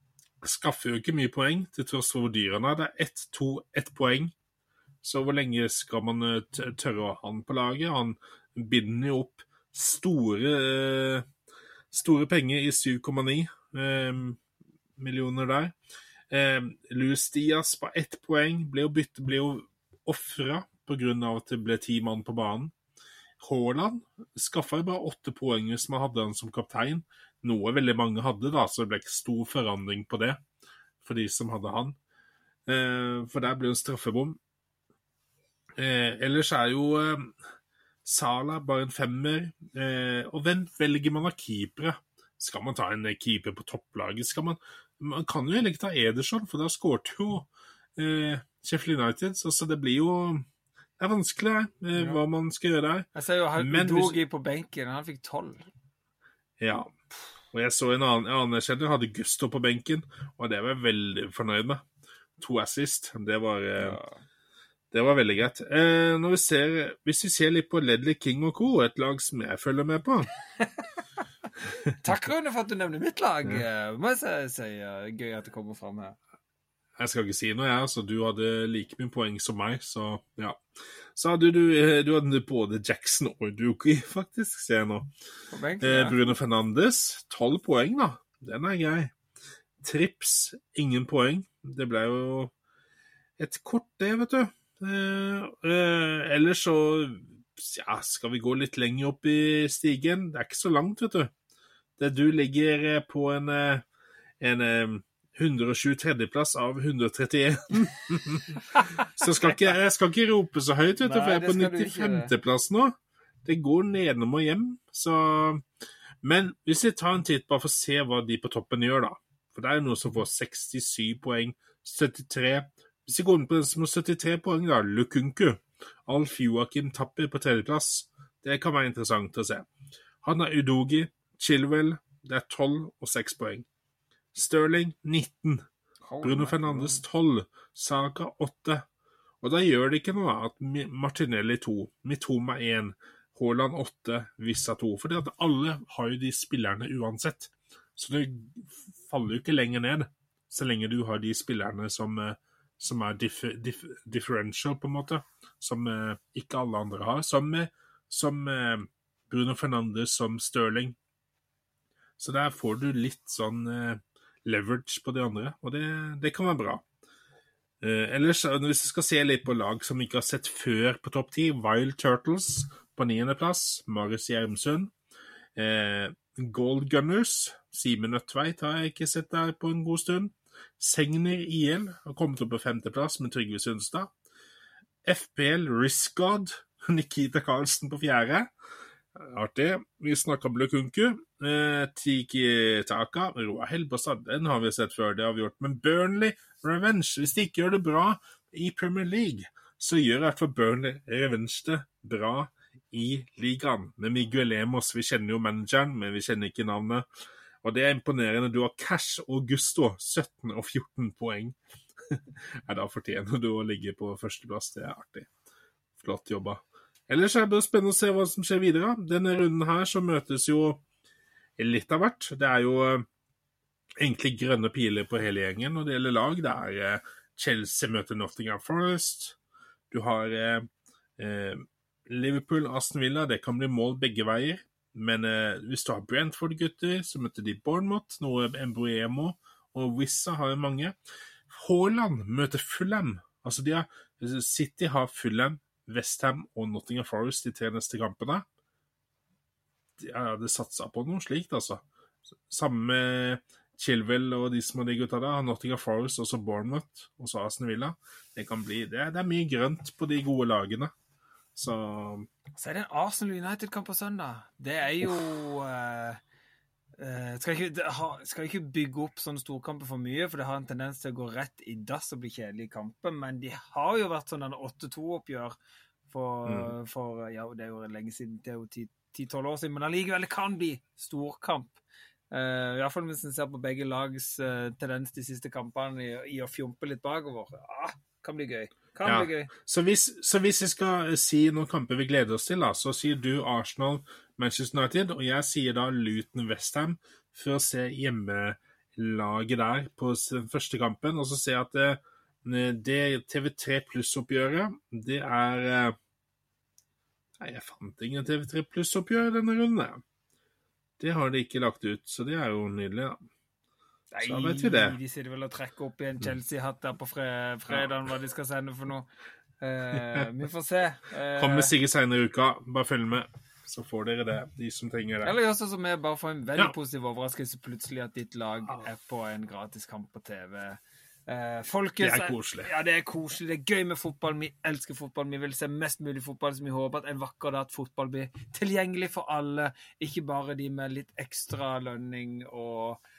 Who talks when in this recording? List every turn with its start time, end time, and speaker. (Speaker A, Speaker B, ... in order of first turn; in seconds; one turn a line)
Speaker A: 0.4-4.3
Speaker A: 5.0-11.3
Speaker A: 11.9-14.4
Speaker A: 15.0-15.7
Speaker A: 16.3-22.7
Speaker A: 23.4-30.4
Speaker A: 31.0-31.9
Speaker A: 32.7-34.4
Speaker A: 35.8-37.4
Speaker A: 38.0-50.5
Speaker A: 51.0-54.2
Speaker B: 51.9-52.2
Speaker B: 53.1-55.6
Speaker A: 56.6-56.9
Speaker A: 57.5-61.8
Speaker A: 62.4-64.0
Speaker B: 63.8-64.2
Speaker A: 64.9-70.3
Speaker B: 70.6-70.8
Speaker A: 71.7-71.9
Speaker B: 72.0-76.2
Speaker A: 77.0-80.6
Speaker A: 81.1-85.1
Speaker B: 85.5-86.3
Speaker A: 85.8-89.1
Speaker A: 89.8-92.5
Speaker A: 93.4-101.3
Speaker A: 102.0-103.8
Speaker A: 104.4-115.6
Speaker B: 111.0-112.3
Speaker A: 116.2-129.7
Speaker A: 130.2-133.7
Speaker A: 134.3-135.7
Speaker B: 136.0-137.0
Speaker A: 136.2-138.8
Speaker A: 139.4-160.9
Speaker A: 162.2-166.8
Speaker A: 167.8-174.9
Speaker A: 175.6-184.1
Speaker A: 185.0-188.5
Speaker A: 189.1-207.1
Speaker A: 207.6-215.3
Speaker A: 216.0-220.8
Speaker A: 221.6-223.1
Speaker A: 224.0-229.4
Speaker A: 229.9-240.9
Speaker A: 241.5-248.4
Speaker A: 250.0-251.8
Speaker A: 252.5-260.9
Speaker A: 261.5-262.3
Speaker B: 262.6-266.2
Speaker B: 267.0-275.6
Speaker B: 276.1-289.5
Speaker A: 276.4-276.7
Speaker A: 289.0-305.9
Speaker A: 307.4-310.0
Speaker A: 311.0-313.2
Speaker B: 314.1-319.1
Speaker A: 314.2-315.0
Speaker A: 317.7-317.9
Speaker B: 319.6-321.7
Speaker A: 319.9-320.3
Speaker A: 321.3-325.3
Speaker B: 325.2-343.0
Speaker A: 332.0-332.7